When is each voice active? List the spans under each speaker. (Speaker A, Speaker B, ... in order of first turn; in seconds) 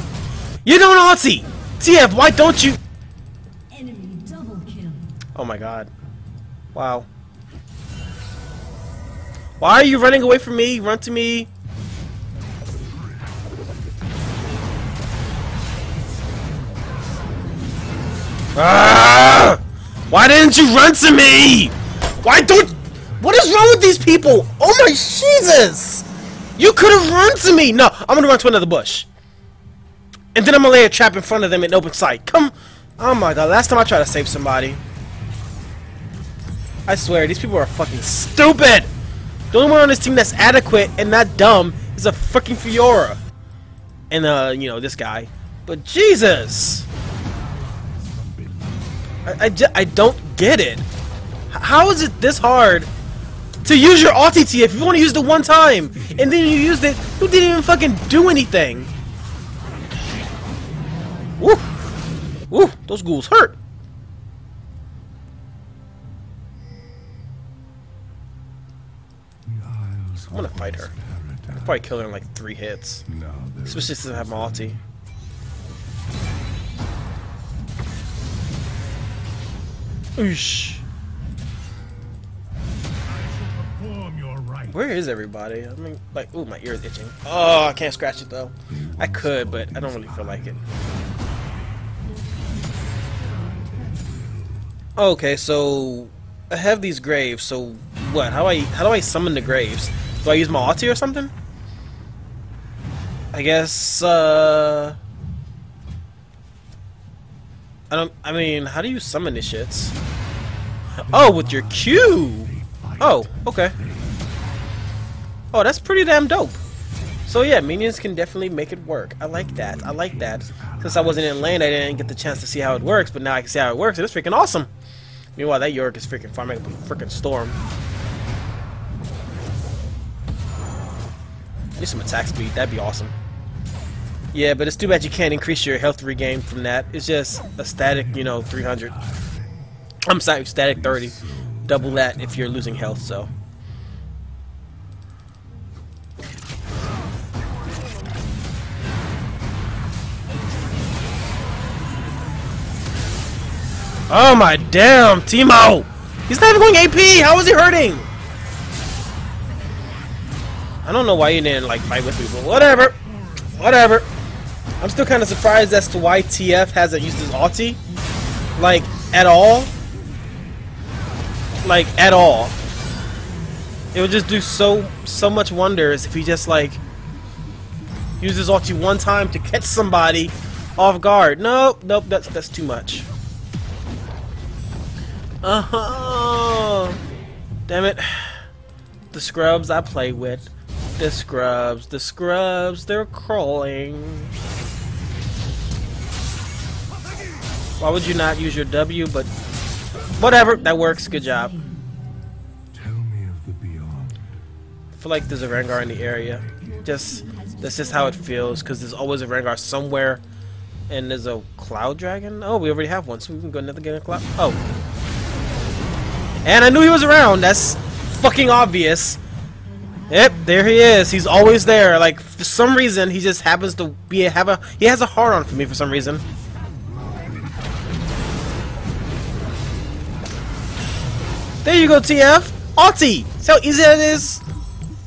Speaker A: 0.6-2.8, 5.3-5.9, 6.7-7.1, 9.6-11.5, 18.5-26.1, 26.6-29.1, 30.3-34.8, 36.9-38.9, 39.5-43.2, 44.1-46.9, 49.2-50.9, 51.5-52.9, 53.6-58.9, 61.4-61.7, 62.5-63.6, 70.3-70.9, 71.5-73.0, 73.6-74.8, 80.2-80.8, 84.7-90.6, 95.0-101.3, 103.3-105.0, 107.9-109.9, 111.1-113.8, 115.5-116.6, 117.3-124.7, 125.3-127.6, 131.8-133.1, 134.3-138.9, 140.1-143.3, 154.1-158.1, 160.8-163.0, 163.5-164.1, 164.8-167.8, 168.6-169.7, 171.6-172.5, 173.9-176.8, 178.2-183.1, 185.4-187.0, 187.7-188.4, 189.1-194.3, 197.8-199.3, 200.2-201.6, 205.0-210.2, 210.9-214.6, 216.4-219.2, 220.1-226.2, 231.6-234.4
Speaker B: 3.7-5.2, 92.0-94.1, 167.9-169.0, 173.2-173.6, 200.1-201.8, 206.6-208.8, 219.6-221.4
Speaker C: 47.3-49.1, 55.9-56.6, 69.4-71.9, 73.0-74.8, 83.1-84.7, 88.7-91.3, 93.2-94.7, 111.0-114.4, 119.3-123.1, 137.8-139.6, 140.6-143.3, 202.7-204.4, 205.5-206.8, 226.9-227.9